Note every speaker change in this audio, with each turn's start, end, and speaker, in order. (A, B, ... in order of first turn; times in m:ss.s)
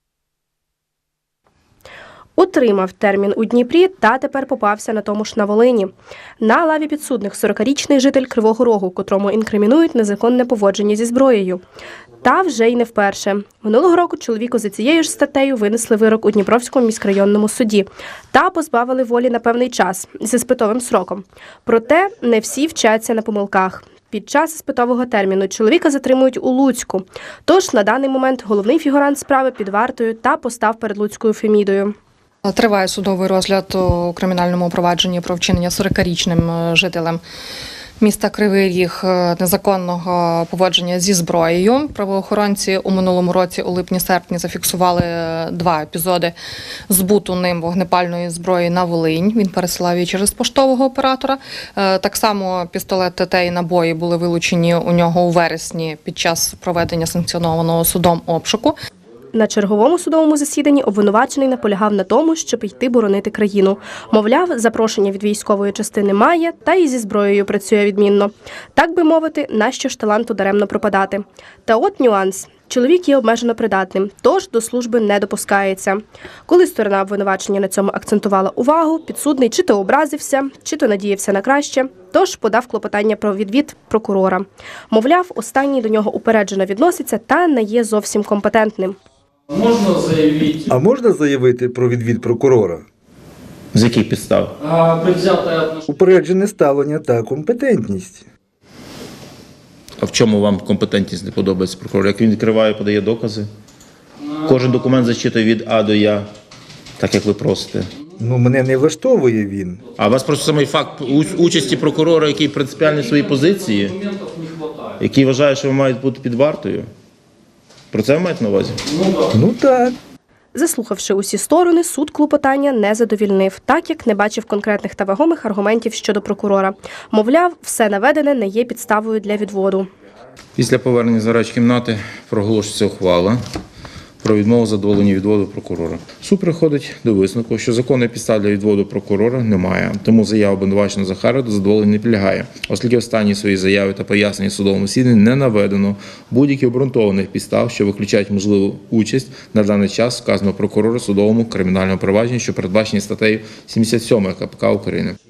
0:02.4-0:11.6 A
0:12.2-0:32.0 A
0:32.4-0:37.2 B
0:38.0-0:46.3 B
0:46.9-0:58.8 B
0:59.3-1:29.0 A
1:29.5-1:30.6 C
1:30.7-1:32.8 D
1:33.7-1:34.6 E
1:34.6-1:35.8 C
1:35.8-1:38.2 D
1:40.0-1:43.5 E
1:44.4-1:46.2 E
1:47.0-1:47.9 E
1:48.2-1:49.8 D
1:50.0-1:54.0 E
1:54.0-1:54.7 C
1:55.0-1:56.9 E
1:57.9-1:58.8 E
1:59.3-2:00.0 D
2:00.5-2:09.9 A
2:10.6-2:13.4 E
2:14.2-2:35.2 E